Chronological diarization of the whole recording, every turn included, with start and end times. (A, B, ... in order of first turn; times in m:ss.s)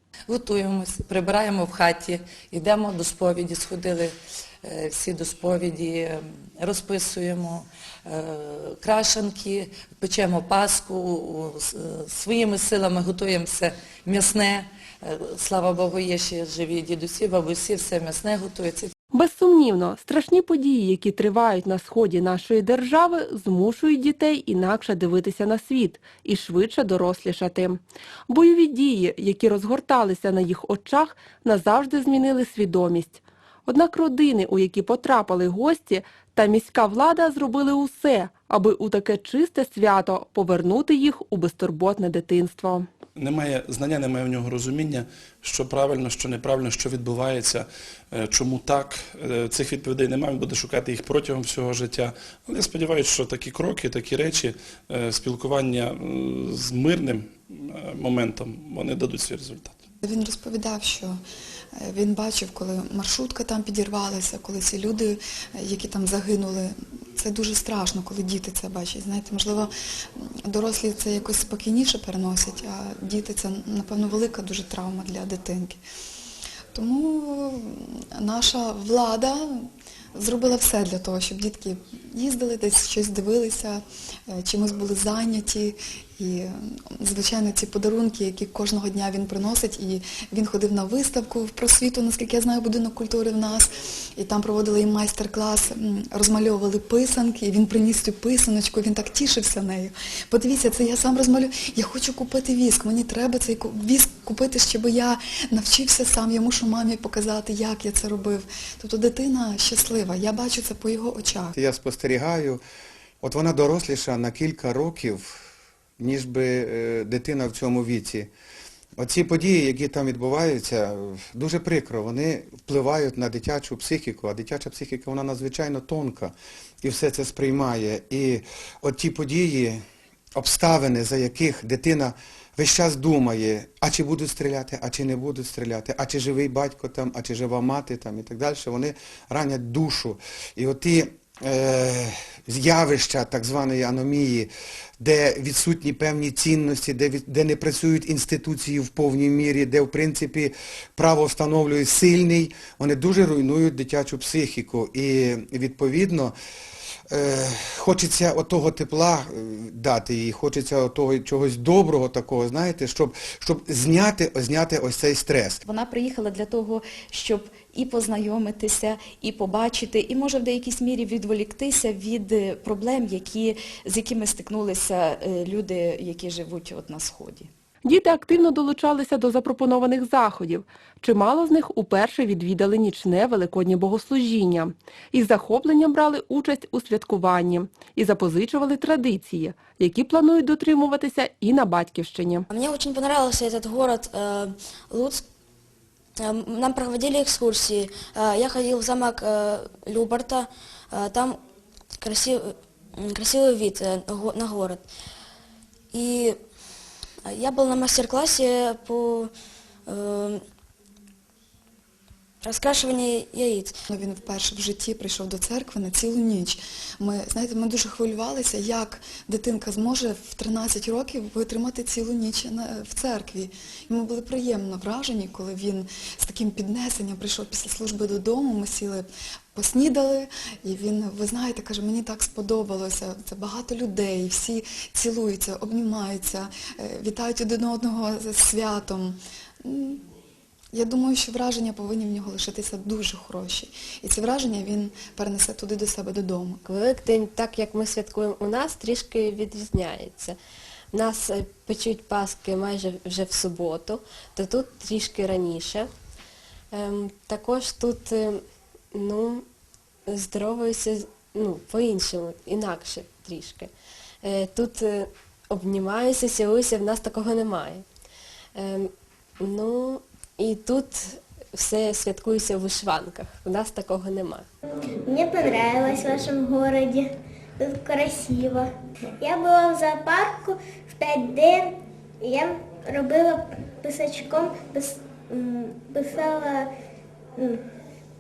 0:00.3-0:18.9 A
0:19.1-0:42.9 B
0:43.2-0:59.8 C
1:00.0-1:01.2 D
1:01.8-1:15.8 D
1:16.7-1:51.6 D
1:51.6-1:52.6 E
1:53.2-1:55.4 E
1:56.0-1:58.3 E
1:59.0-2:09.8 E
2:10.4-2:36.4 E
2:37.1-2:45.6 E
2:45.6-2:57.5 F
2:57.8-3:12.5 B
3:12.5-3:15.2 G
3:16.2-3:21.4 G
3:22.0-3:24.9 G
3:25.9-3:26.4 G
3:27.3-3:29.3 G
3:29.9-3:30.4 G
3:32.4-3:33.8 G
3:33.9-4:00.0 D
4:00.7-4:06.6 D
4:06.6-4:10.4 H
4:10.9-4:15.9 H
4:16.7-4:19.5 H
4:20.1-4:23.7 H
4:24.2-4:27.9 H
4:28.6-4:34.5 H
4:35.0-4:46.7 I
4:47.4-4:47.7 I